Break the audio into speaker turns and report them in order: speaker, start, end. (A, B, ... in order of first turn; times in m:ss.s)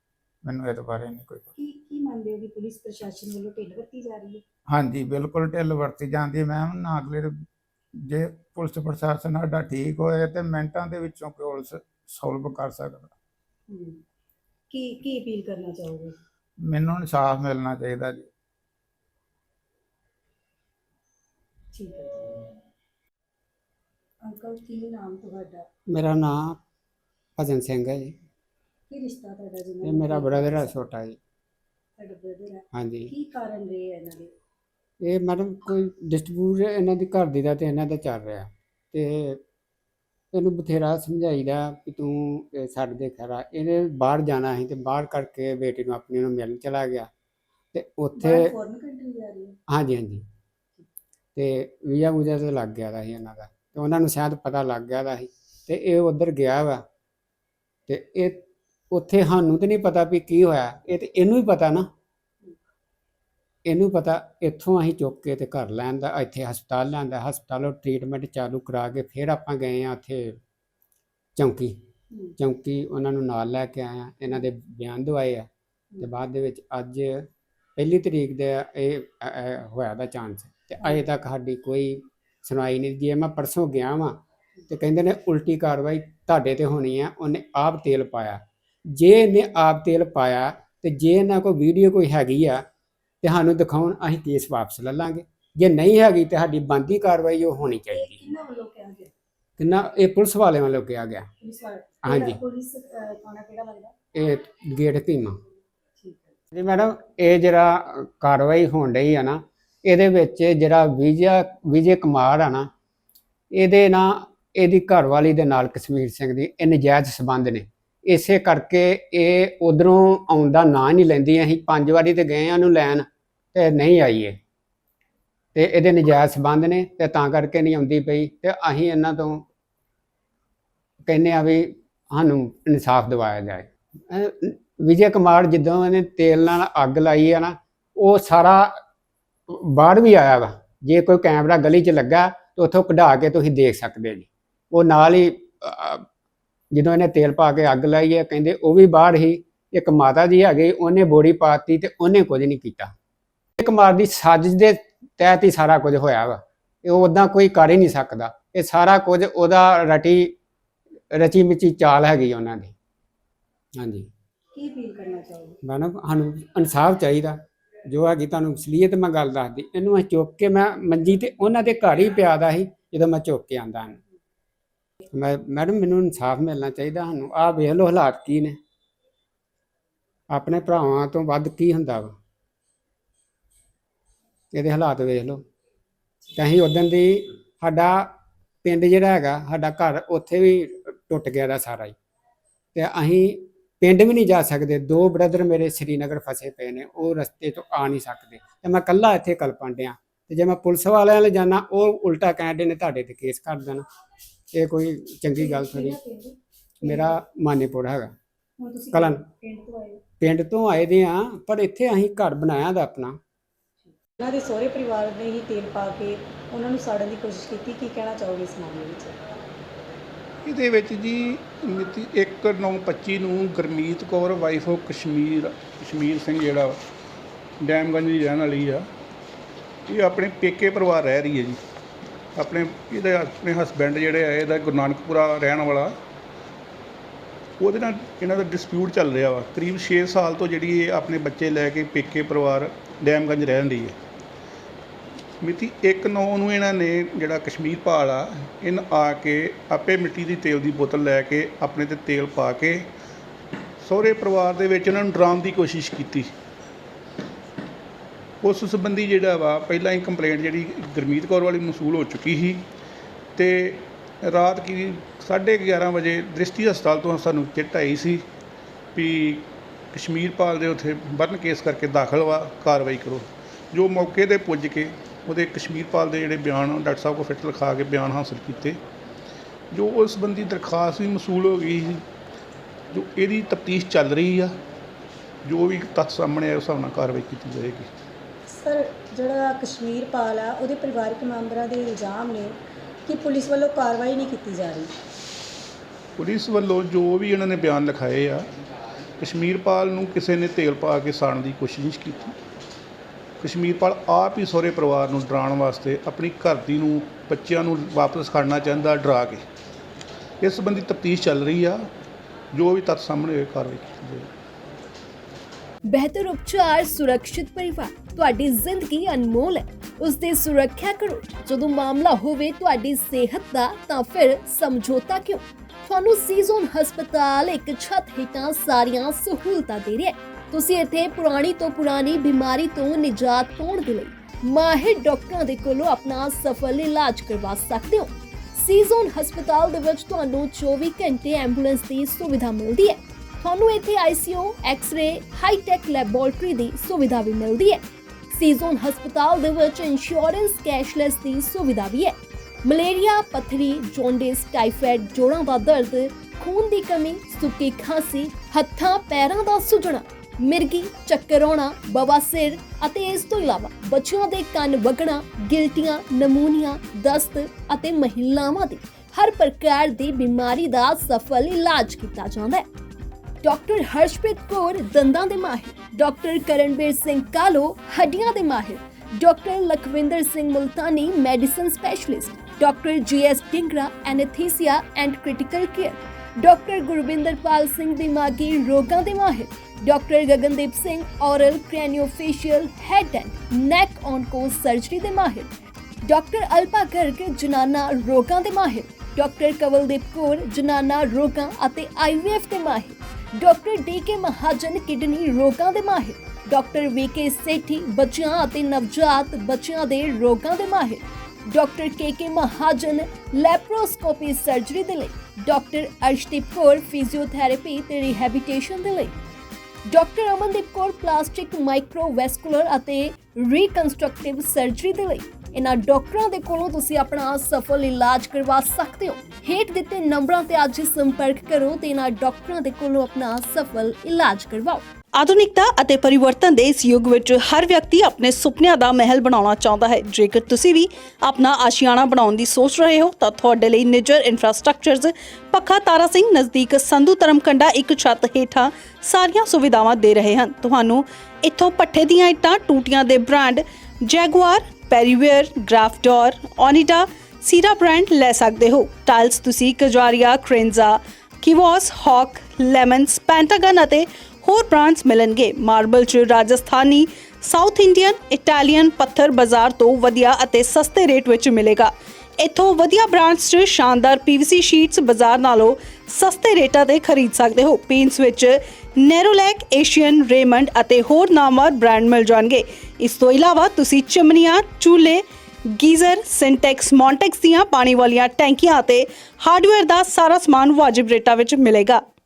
0:00.4-0:01.5 A
0:01.6-0:04.4 B
0:04.7-0:07.4 A
0:08.0-0:13.1 A
0:13.7-0:14.0 B
0:14.7-0:16.1 B
0:16.7-0:18.3 A
0:21.7-0:22.5 B
0:24.2-0:25.6 B
0:25.9-0:26.6 C
0:27.4-0:28.1 C
0:28.9-0:30.7 B
0:29.8-0:31.2 C
0:32.0-0:34.3 B
0:32.7-0:33.1 C
0:35.0-0:39.4 C
0:40.3-0:47.1 C
0:47.7-0:48.5 C
0:48.2-0:49.6 B
0:49.7-0:50.2 C
0:51.4-0:56.8 C
0:57.9-1:01.9 C
1:03.6-1:10.4 C
1:11.4-1:11.8 C
1:12.4-1:15.5 C
1:16.0-1:32.6 C
1:33.2-1:38.2 C
1:37.9-1:39.1 B
1:39.6-1:41.3 C
1:41.4-1:43.9 B
1:42.0-1:42.4 C
1:44.1-1:45.4 C
1:46.0-1:46.3 B
1:46.5-1:52.7 C
1:53.5-2:04.4 C
2:05.5-2:09.4 C
2:11.0-2:18.8 C
2:19.5-2:26.0 C
2:26.7-2:32.9 C
2:33.6-2:40.3 C
2:41.1-2:42.7 C
2:43.8-2:44.1 C
2:44.5-2:45.6 B
2:45.6-2:54.0 C
2:55.1-2:58.6 C
3:00.3-3:02.2 C
3:04.5-3:05.4 C
3:06.3-3:12.0 C
3:12.7-3:23.8 C
3:24.5-3:26.0 C
3:25.3-3:27.2 B
3:26.8-3:28.1 C
3:28.6-3:30.0 B
3:28.9-3:29.2 C
3:30.2-3:33.2 C
3:34.1-3:39.2 B
3:40.4-3:46.8 D
3:47.6-3:48.8 D
3:49.9-3:51.6 D
3:52.4-3:56.0 D
3:57.6-4:04.0 D
4:05.4-4:12.9 D
4:13.8-4:16.3 D
4:18.4-4:22.6 D
4:23.4-4:28.2 D
4:28.9-4:38.8 D
4:39.7-4:42.0 D
4:42.9-4:44.5 D
4:45.4-4:47.9 D
4:48.5-4:54.9 B
4:56.2-4:58.5 D
4:59.2-5:02.3 D
5:03.4-5:09.4 D
5:10.4-5:11.8 D
5:12.5-5:14.3 D
5:15.9-6:12.6 E
6:13.4-6:35.5 E
6:36.1-6:59.2 E
6:59.9-7:14.8 E
7:15.2-8:05.2 F
8:05.7-8:12.0 F